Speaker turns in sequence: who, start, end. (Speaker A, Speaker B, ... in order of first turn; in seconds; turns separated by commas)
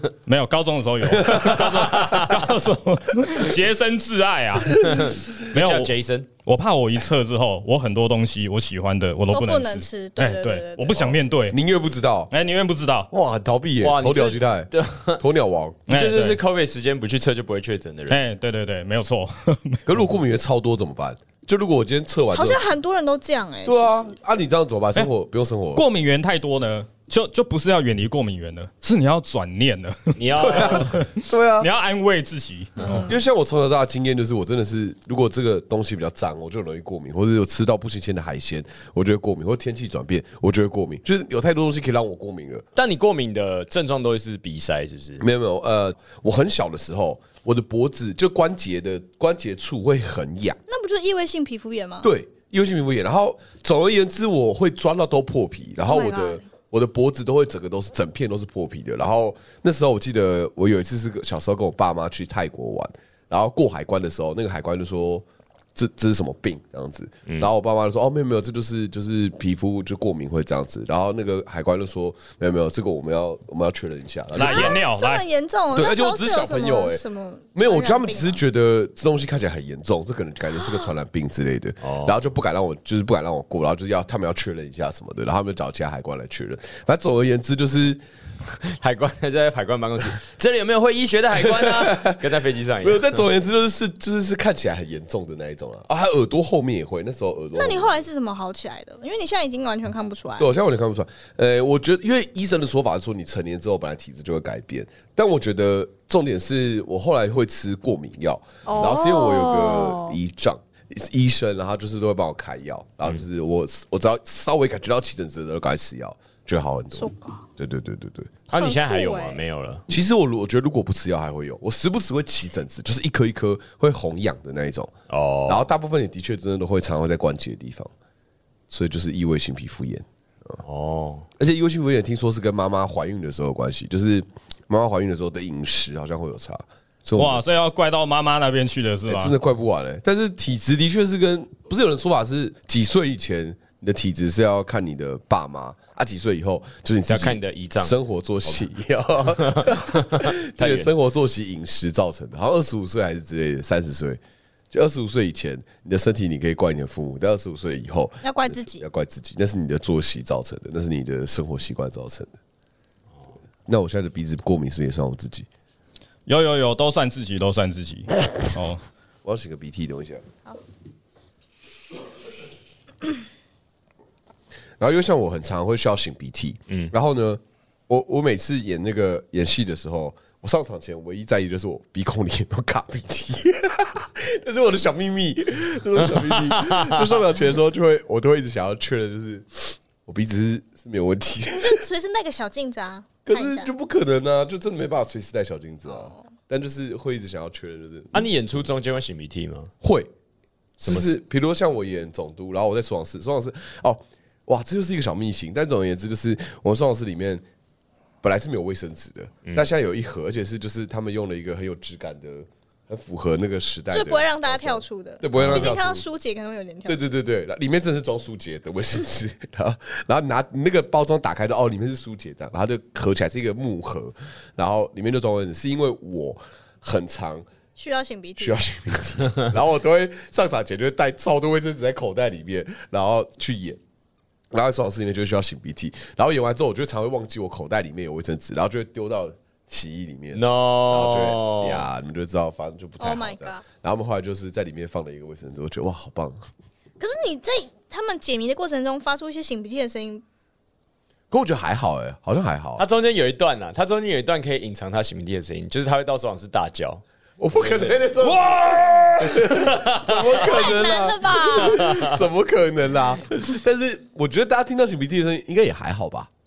Speaker A: 0.2-5.9, Speaker B: 1.1-2.2, Speaker C: 4.8-6.3, Speaker A: 6.4-11.6, Speaker D: 9.3-11.2, Speaker B: 11.5-12.3, Speaker A: 12.3-13.1, Speaker B: 13.1-15.8, Speaker C: 13.8-15.2, Speaker A: 15.9-16.4, Speaker C: 15.9-18.2, Speaker A: 18.1-19.8, Speaker B: 19.9-22.6, Speaker D: 22.3-24.1, Speaker B: 23.6-25.8, Speaker A: 25.7-33.1, Speaker C: 30.2-31.0, Speaker B: 30.4-31.7, Speaker B: 33.0-42.6, Speaker C: 42.8-45.2, Speaker B: 45.2-50.6, Speaker D: 50.7-52.1, Speaker B: 52.0-74.8, Speaker D: 55.9-56.4, Speaker A: 74.3-75.2, Speaker D: 74.4-78.4, Speaker B: 75.7-77.0, Speaker B: 77.5-88.0, Speaker C: 81.8-82.2, Speaker C: 88.6-93.2, Speaker B: 91.3-92.2, Speaker B: 92.8-98.0, Speaker D: 97.5-100.5, Speaker B: 100.4-118.3, Speaker D: 108.7-110.2, Speaker D: 116.9-117.5, Speaker C: 118.5-119.8, Speaker D: 118.5-119.4, Speaker B: 119.9-124.9, Speaker C: 125.1-125.7, Speaker B: 125.5-127.9, Speaker B: 128.7-130.6, Speaker C: 130.6-131.3, Speaker B: 131.4-137.6, Speaker A: 137.2-139.3, Speaker B: 139.1-162.4, Speaker C: 147.1-147.9, Speaker C: 149.4-150.9, Speaker D: 158.2-158.8, Speaker B: 163.7-165.5, Speaker A: 166.3-168.8, Speaker B: 169.2-170.2, Speaker B: 174.8-191.8, Speaker D: 191.6-193.7, Speaker B: 193.2-198.3, Speaker D: 195.9-196.2, Speaker C: 198.1-199.7, Speaker B: 199.8-200.1, Speaker C: 200.8-201.2, Speaker B: 200.8-207.4, Speaker B: 208.2-216.1, Speaker C: 209.4-209.7, Speaker D: 213.9-217.0, Speaker C: 215.3-215.8, Speaker B: 216.9-227.4, Speaker D: 227.8-228.6, Speaker B: 228.4-233.8, Speaker B: 234.5-246.5, Speaker C: 240.3-241.9, Speaker D: 243.0-243.6, Speaker D: 247.0-250.2, Speaker B: 251.3-252.8, Speaker C: 252.8-257.0, Speaker B: 257.4-266.3, Speaker C: 257.6-257.9, Speaker A: 258.2-259.3, Speaker C: 259.5-260.3, Speaker D: 260.1-262.1, Speaker C: 261.6-262.2